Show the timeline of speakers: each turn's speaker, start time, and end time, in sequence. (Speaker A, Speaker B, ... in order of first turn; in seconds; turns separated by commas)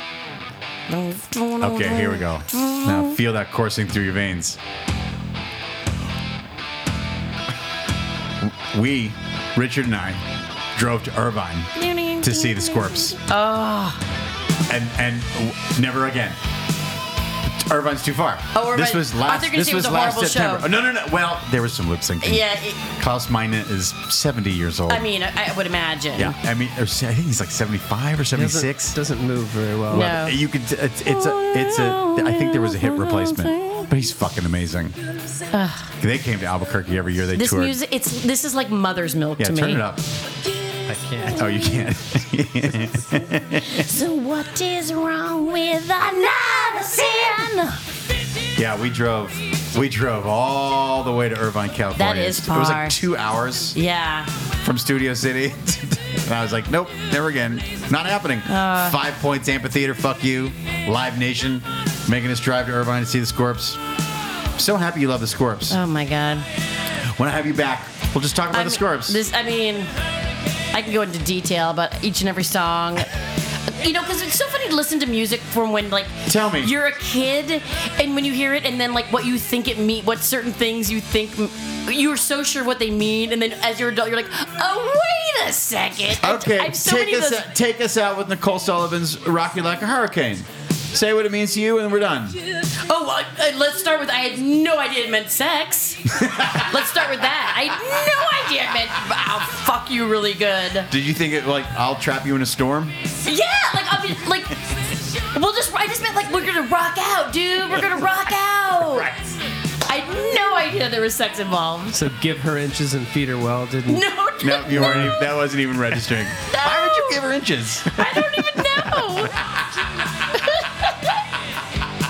Speaker A: 0.9-3.2, Speaker B: 1.6-4.6, Speaker B: 8.4-10.2, Speaker B: 10.8-13.2, Speaker A: 11.8-14.0, Speaker B: 14.7-16.4, Speaker B: 17.6-25.1, Speaker A: 18.5-20.7, Speaker A: 22.2-22.8, Speaker A: 24.9-26.4, Speaker B: 26.1-29.0, Speaker C: 28.4-30.2, Speaker A: 29.9-30.4, Speaker B: 29.9-35.0, Speaker A: 31.1-33.9, Speaker A: 35.5-35.9, Speaker B: 36.0-37.8, Speaker A: 37.4-39.8, Speaker B: 39.4-40.0, Speaker C: 40.9-41.4, Speaker A: 41.1-41.8, Speaker B: 41.3-43.9, Speaker A: 43.5-47.8, Speaker B: 48.6-53.8, Speaker A: 52.0-53.0, Speaker A: 53.8-54.3, Speaker B: 54.6-63.8, Speaker A: 58.5-59.0, Speaker B: 64.6-65.8, Speaker A: 65.7-66.5, Speaker B: 67.2-69.2, Speaker A: 68.5-69.9, Speaker A: 70.7-73.1, Speaker A: 73.7-87.4, Speaker B: 76.3-76.7, Speaker B: 86.2-92.4, Speaker A: 92.6-100.9, Speaker B: 96.1-96.7, Speaker B: 100.9-103.0, Speaker A: 103.2-109.1, Speaker A: 109.9-112.0, Speaker C: 111.9-114.1, Speaker A: 113.9-115.0, Speaker B: 114.4-119.2, Speaker C: 114.7-115.2, Speaker A: 116.5-117.2, Speaker A: 117.9-119.4, Speaker A: 120.1-121.2